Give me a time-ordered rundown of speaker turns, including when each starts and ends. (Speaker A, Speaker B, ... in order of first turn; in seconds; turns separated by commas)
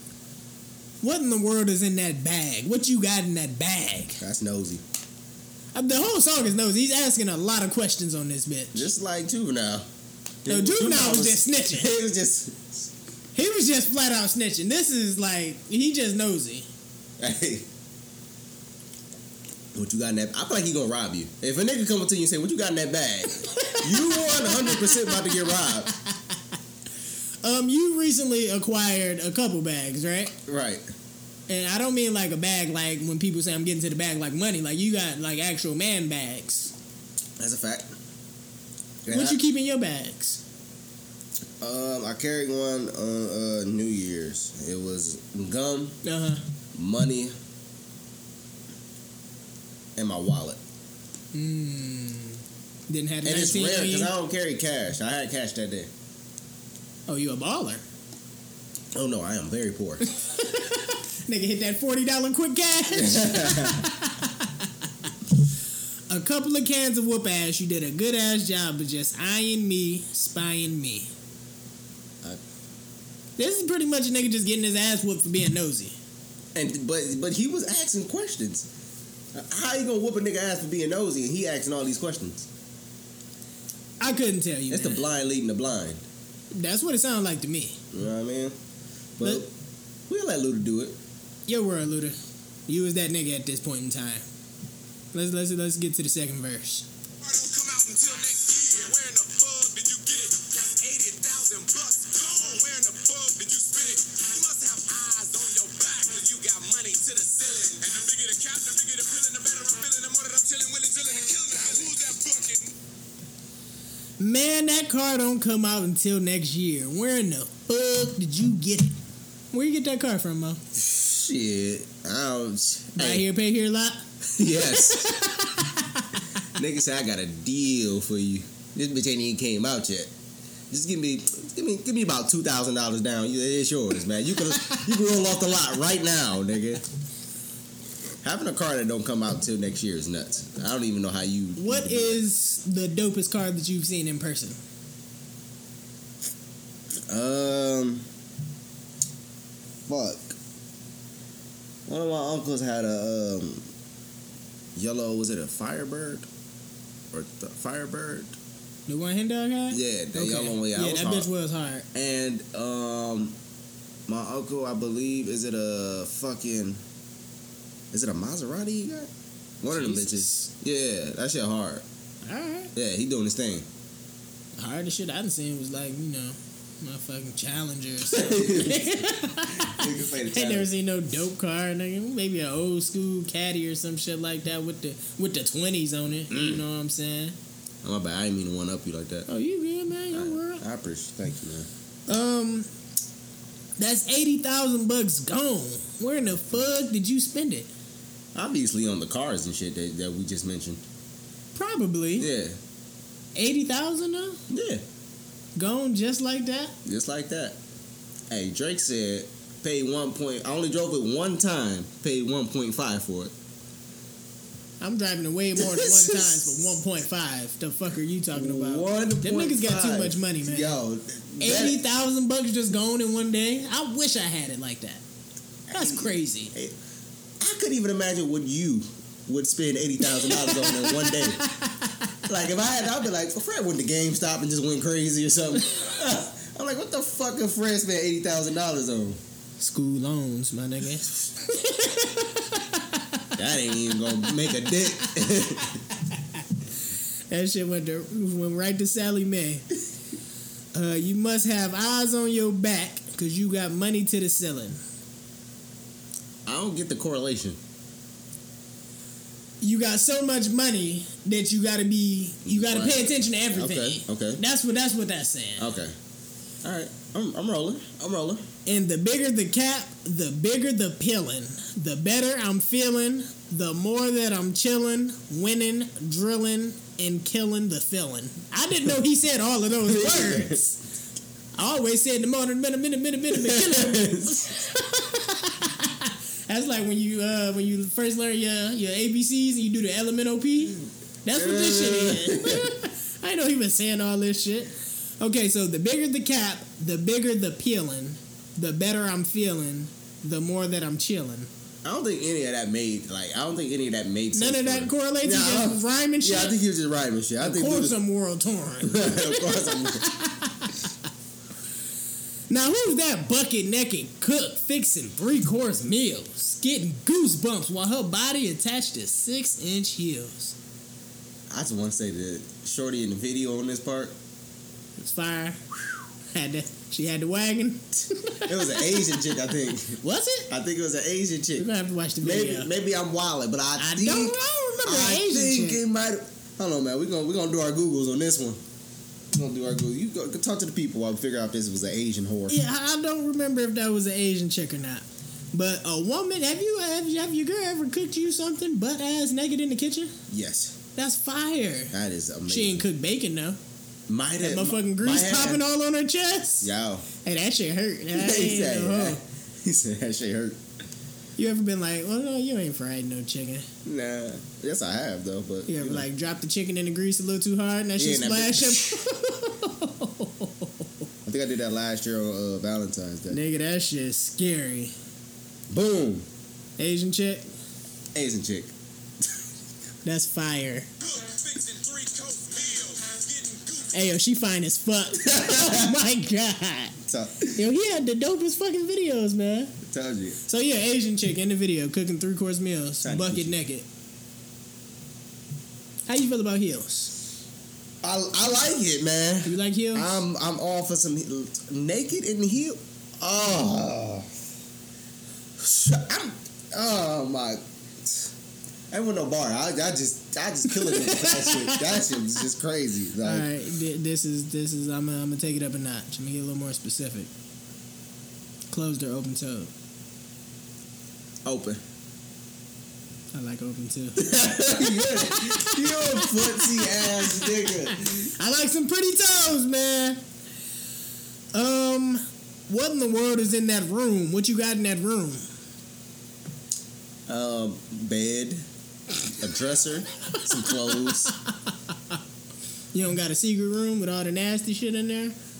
Speaker A: 1.0-4.2, Speaker B: 4.2-4.8, Speaker A: 5.8-8.9, Speaker B: 8.7-9.9, Speaker B: 10.4-12.9, Speaker A: 10.5-11.9, Speaker A: 13.3-16.7, Speaker B: 17.2-17.7, Speaker B: 19.7-25.9, Speaker A: 23.4-25.6, Speaker A: 27.4-30.3, Speaker B: 30.5-30.9, Speaker A: 31.5-36.7, Speaker B: 37.4-37.9, Speaker B: 39.0-39.4, Speaker A: 39.1-40.4, Speaker B: 41.6-46.0, Speaker A: 46.0-46.4, Speaker B: 46.7-47.3, Speaker B: 50.0-50.6, Speaker A: 51.3-54.1, Speaker B: 53.2-55.9, Speaker A: 57.1-57.8, Speaker B: 58.9-60.0, Speaker A: 60.1-64.7, Speaker B: 62.9-63.9, Speaker A: 66.1-71.1, Speaker A: 73.4-76.0, Speaker B: 76.5-78.7, Speaker B: 79.3-82.5, Speaker A: 84.0-85.0, Speaker B: 84.7-86.0, Speaker A: 86.5-87.8, Speaker B: 87.9-88.6, Speaker B: 89.2-89.5, Speaker B: 90.1-91.0, Speaker A: 91.5-94.2, Speaker A: 95.1-96.9, Speaker C: 97.2-112.7, Speaker A: 114.2-118.9, Speaker A: 119.5-120.6, Speaker B: 120.8-123.3, Speaker A: 123.0-126.1, Speaker B: 124.4-125.2, Speaker B: 126.5-130.1, Speaker B: 130.7-136.8, Speaker B: 138.2-142.3, Speaker A: 141.6-144.6, Speaker B: 147.1-148.1, Speaker B: 149.9-150.4, Speaker B: 151.9-153.7, Speaker B: 154.8-156.3, Speaker B: 157.1-158.4, Speaker A: 158.9-161.9, Speaker B: 159.7-161.3, Speaker B: 161.9-163.4, Speaker B: 164.1-166.8, Speaker B: 167.9-169.1, Speaker B: 169.6-171.8, Speaker A: 169.7-170.5, Speaker A: 172.2-172.7, Speaker B: 172.8-173.7, Speaker A: 174.6-187.3, Speaker B: 178.1-180.7, Speaker B: 186.3-186.6, Speaker B: 187.8-189.3, Speaker A: 189.3-190.6, Speaker B: 190.1-191.7, Speaker A: 192.1-192.7, Speaker A: 193.8-197.7, Speaker B: 198.3-200.8, Speaker A: 201.6-202.3, Speaker B: 202.2-202.6, Speaker A: 203.3-204.4, Speaker B: 204.5-204.8, Speaker A: 205.6-206.7, Speaker B: 206.8-207.6, Speaker B: 208.3-213.3, Speaker A: 214.8-220.8, Speaker B: 215.6-216.7, Speaker B: 218.3-221.8, Speaker A: 221.4-225.0, Speaker B: 225.7-226.8, Speaker A: 225.7-226.5, Speaker B: 227.4-231.4, Speaker A: 230.0-232.1, Speaker B: 232.3-239.2, Speaker A: 239.6-243.4, Speaker B: 243.4-245.8, Speaker A: 244.2-245.6, Speaker A: 247.3-249.7, Speaker A: 250.7-254.8, Speaker B: 256.5-257.6, Speaker A: 259.6-265.7, Speaker B: 262.4-264.4, Speaker B: 265.6-265.9, Speaker B: 266.6-268.4, Speaker A: 268.7-280.8, Speaker B: 279.9-280.6, Speaker A: 281.6-301.5, Speaker B: 283.3-284.5, Speaker B: 291.4-292.7, Speaker B: 301.8-308.0, Speaker A: 304.3-306.6, Speaker A: 307.4-310.9, Speaker B: 308.8-310.1, Speaker A: 312.5-320.6, Speaker B: 321.5-324.1, Speaker A: 325.0-325.6, Speaker A: 326.3-329.2, Speaker B: 328.5-331.7, Speaker A: 330.0-330.5, Speaker A: 331.6-332.7, Speaker B: 332.2-338.6, Speaker A: 333.8-335.8, Speaker B: 339.3-342.6, Speaker A: 342.5-350.1, Speaker B: 350.3-350.8, Speaker A: 351.0-351.9, Speaker B: 351.9-352.8, Speaker A: 352.5-353.6, Speaker B: 354.1-355.6, Speaker A: 354.4-356.7, Speaker B: 356.6-357.1, Speaker A: 357.2-359.2, Speaker B: 358.1-360.6, Speaker A: 361.4-363.7, Speaker B: 363.9-366.1, Speaker A: 365.7-370.9, Speaker B: 368.0-369.1, Speaker B: 371.3-373.4, Speaker A: 373.3-374.9, Speaker B: 375.7-376.3, Speaker A: 376.8-377.5, Speaker B: 378.1-378.7, Speaker A: 380.1-380.9, Speaker C: 381.0-384.0, Speaker A: 383.9-387.0, Speaker B: 385.2-385.9, Speaker B: 387.1-387.6, Speaker A: 387.5-389.8, Speaker B: 389.8-390.4, Speaker A: 390.5-393.9, Speaker B: 393.0-393.5, Speaker A: 396.1-397.1, Speaker B: 398.0-404.3, Speaker A: 399.4-400.2, Speaker B: 405.6-408.3, Speaker B: 408.9-413.5, Speaker A: 410.7-412.2, Speaker A: 413.2-417.3, Speaker A: 418.7-419.7, Speaker B: 421.4-421.8, Speaker A: 423.3-430.2, Speaker B: 424.2-428.3, Speaker A: 431.5-435.5, Speaker B: 437.3-438.7, Speaker B: 439.3-441.3, Speaker A: 440.6-441.2, Speaker A: 441.9-442.2, Speaker A: 442.9-445.4